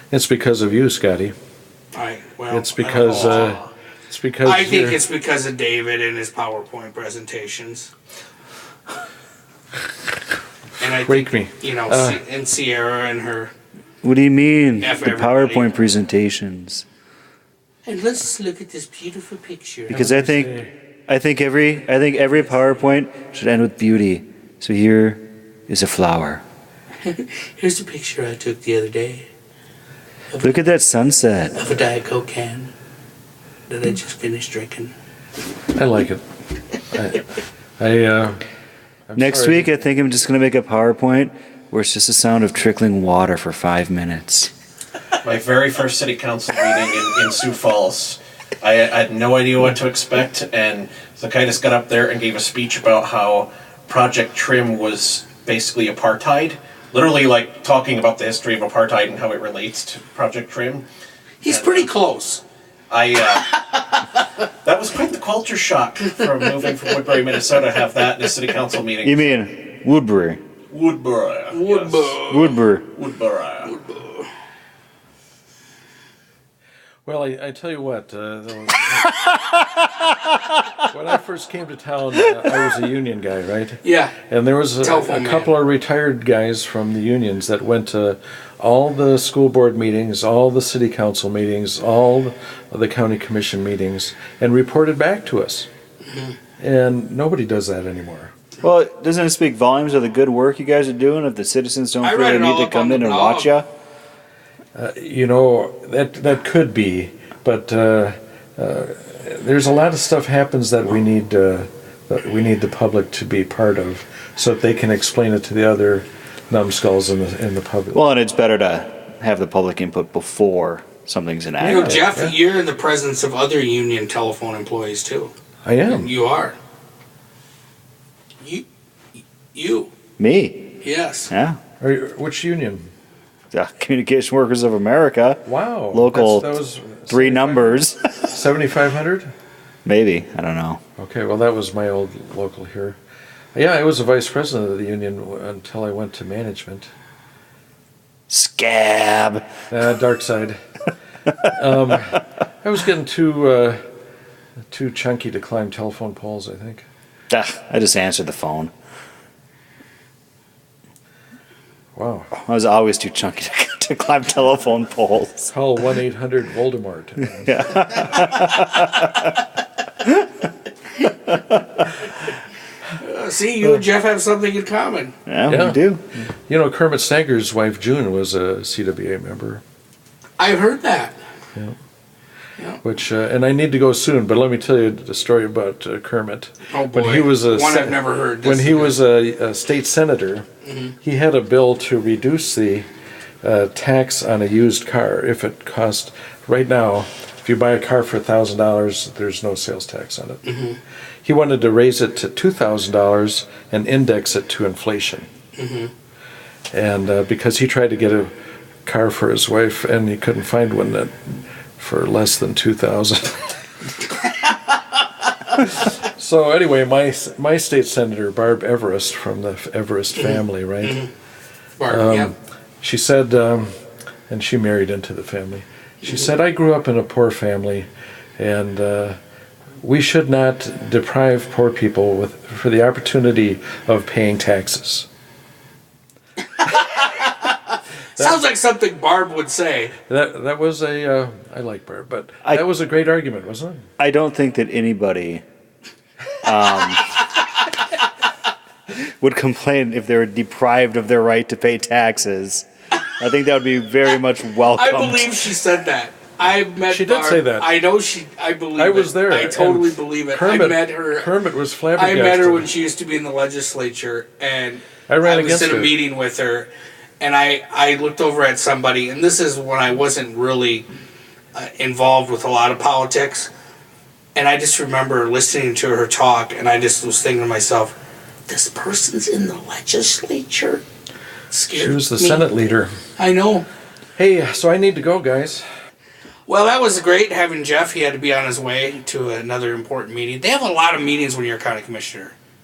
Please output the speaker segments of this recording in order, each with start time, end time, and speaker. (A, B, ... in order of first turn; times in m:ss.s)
0:00.1-0:01.4 A
0:01.9-0:03.6 B
0:02.5-0:05.0 A
0:03.1-0:03.7 C
0:04.4-0:07.9 B
0:10.8-0:13.5 B
0:10.8-0:12.2 A
0:14.0-0:16.8 D
0:14.8-0:15.8 B
0:17.8-0:20.1 B
0:19.9-0:26.4 D
0:19.9-0:20.7 A
0:27.0-0:29.3 B
0:30.4-0:31.6 D
0:31.6-0:32.7 B
0:33.7-0:34.9 B
0:35.7-0:36.2 A
0:36.9-0:37.2 A
0:37.8-0:38.4 A
0:39.1-0:39.8 A
0:39.2-0:44.5 D
0:45.2-1:00.9 C
1:01.4-1:02.4 B
1:01.4-1:01.9 C
1:02.9-1:03.6 C
1:04.6-1:09.3 C
1:06.2-1:07.0 B
1:09.0-1:10.4 D
1:10.7-1:12.2 C
1:11.5-1:12.6 B
1:12.2-1:12.8 D
1:12.9-1:13.8 C
1:13.6-1:14.3 B
1:17.1-1:19.1 A
1:20.9-1:35.7 A
1:23.8-1:24.2 B
1:24.8-1:25.5 B
1:36.0-1:36.4 B
1:36.6-1:38.3 A
1:38.6-1:43.7 D
1:42.0-1:43.6 B
1:44.8-1:58.0 A
1:57.9-2:02.0 D
2:01.6-2:05.3 B
2:01.7-2:02.4 A
2:05.6-2:06.1 A
2:05.9-2:06.6 B
2:08.4-2:09.9 B
2:10.2-2:10.7 D
2:10.8-2:11.3 B
2:11.3-2:11.6 D
2:11.8-2:12.9 A
2:13.5-2:16.6 D
2:15.4-2:19.3 A
2:17.1-2:18.1 D
2:19.8-2:20.8 D
2:21.0-2:23.0 A
2:23.6-2:26.9 A
2:28.3-2:29.4 D
2:29.7-2:30.6 A
2:31.5-2:33.8 A
2:34.7-2:36.9 A
2:37.3-2:38.7 D
2:42.0-2:42.3 A
2:42.3-2:45.5 D
2:45.5-2:47.9 A
2:47.4-2:49.3 D
2:51.0-2:51.8 D
2:53.0-2:55.2 B
2:55.3-2:56.0 D
2:55.5-2:55.8 A
2:56.5-2:59.6 A
3:00.4-3:01.2 B
3:02.8-3:10.5 A
3:06.7-3:09.0 B
3:10.6-3:11.0 B
3:11.0-3:12.9 A
3:13.4-3:20.4 A
3:20.4-3:20.8 B
3:21.2-3:25.3 A
3:25.6-3:25.9 B
3:26.7-3:28.3 A
3:28.8-3:33.6 A
3:35.6-3:41.0 A
3:40.1-3:41.1 B
3:41.8-3:42.3 B
3:41.9-3:43.7 A
3:44.3-3:49.2 A
3:46.0-3:46.3 B
3:49.8-3:55.1 A
3:56.6-4:00.0 B
3:58.2-3:58.4 A
4:00.1-4:03.9 A
4:04.0-4:05.4 D
4:06.4-4:07.1 D
4:08.9-4:15.4 D
4:14.7-4:21.3 B
4:16.9-4:17.7 A
4:18.8-4:22.7 A
4:22.0-4:26.7 B
4:25.1-4:26.0 A
4:27.2-4:30.9 B
4:31.5-4:33.5 B
4:34.4-4:38.0 B
4:38.5-4:40.8 B
4:41.5-4:42.5 B
4:41.7-4:42.9 A
4:43.2-4:43.7 B
4:44.2-4:45.7 A
4:46.5-4:52.4 B